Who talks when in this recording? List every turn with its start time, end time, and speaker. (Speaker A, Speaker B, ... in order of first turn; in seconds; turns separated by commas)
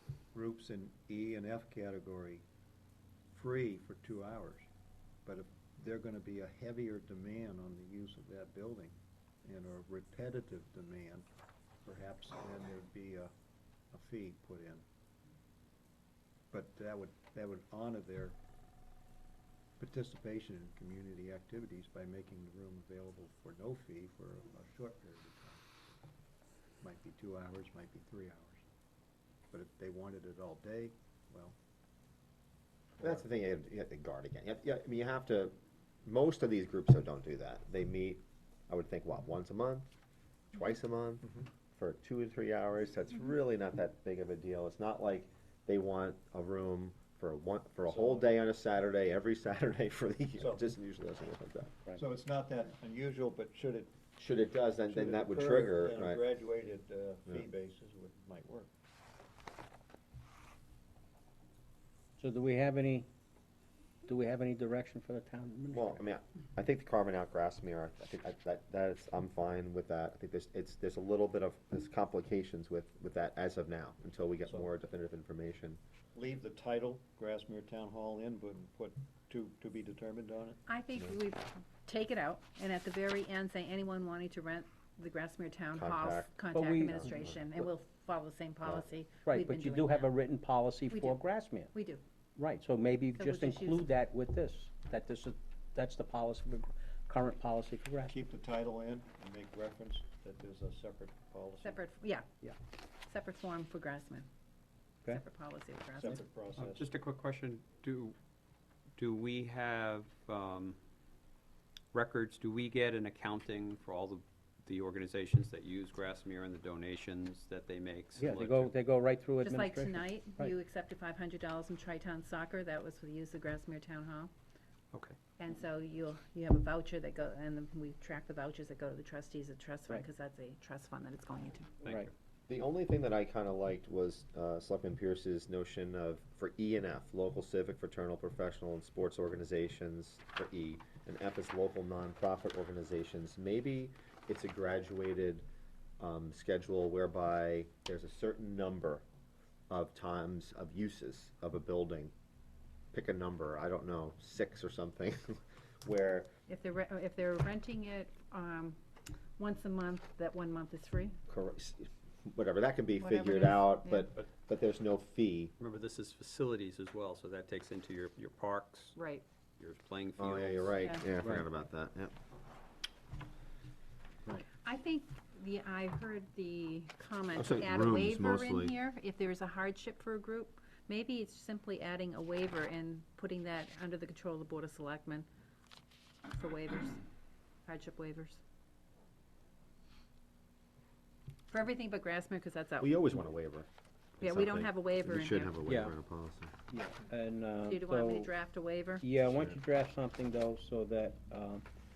Speaker A: 0.3-2.4, Speaker A: 3.3-4.7, Speaker A: 5.2-11.3, Speaker A: 11.8-13.3, Speaker A: 13.9-14.8, Speaker A: 16.5-18.4, Speaker A: 19.8-25.6, Speaker A: 26.8-28.6, Speaker A: 29.5-31.6, Speaker B: 33.0-39.9, Speaker B: 40.5-51.7, Speaker A: 47.9-48.2, Speaker A: 50.4-50.7, Speaker A: 52.0-54.0, Speaker B: 54.2-56.2, Speaker A: 54.9-58.7, Speaker C: 62.2-63.1, Speaker C: 64.1-66.0, Speaker B: 65.7-75.8, Speaker A: 76.1-80.6, Speaker D: 80.7-90.1, Speaker B: 85.7-86.3, Speaker C: 86.5-87.1, Speaker B: 86.9-87.4, Speaker C: 89.3-91.7, Speaker D: 90.9-91.2, Speaker D: 91.7-92.0, Speaker C: 92.4-98.1, Speaker D: 93.1-93.9, Speaker A: 98.1-101.8, Speaker D: 101.6-102.2, Speaker D: 103.1-104.3, Speaker D: 105.1-106.2, Speaker A: 106.0-106.9, Speaker E: 106.7-108.2, Speaker E: 109.0-110.8, Speaker E: 111.9-118.7, Speaker C: 118.2-120.5, Speaker D: 119.4-124.3, Speaker E: 124.9-125.2, Speaker D: 125.4-131.8, Speaker B: 132.5-145.4, Speaker B: 146.0-149.0, Speaker B: 149.7-152.1, Speaker B: 152.9-156.3, Speaker D: 156.5-158.8, Speaker D: 159.4-161.2, Speaker B: 161.3-165.5, Speaker D: 163.0-164.1, Speaker E: 165.6-168.9, Speaker D: 168.9-169.2, Speaker E: 169.6-170.8, Speaker B: 170.2-172.1, Speaker D: 170.8-171.1, Speaker D: 174.6-185.3, Speaker B: 177.3-178.7, Speaker D: 186.3-187.0, Speaker D: 187.7-188.4, Speaker D: 191.5-193.1, Speaker B: 192.8-193.7, Speaker B: 194.2-196.5, Speaker D: 194.2-195.6, Speaker C: 195.7-195.9, Speaker C: 196.7-198.3, Speaker D: 197.6-199.0, Speaker C: 199.0-201.7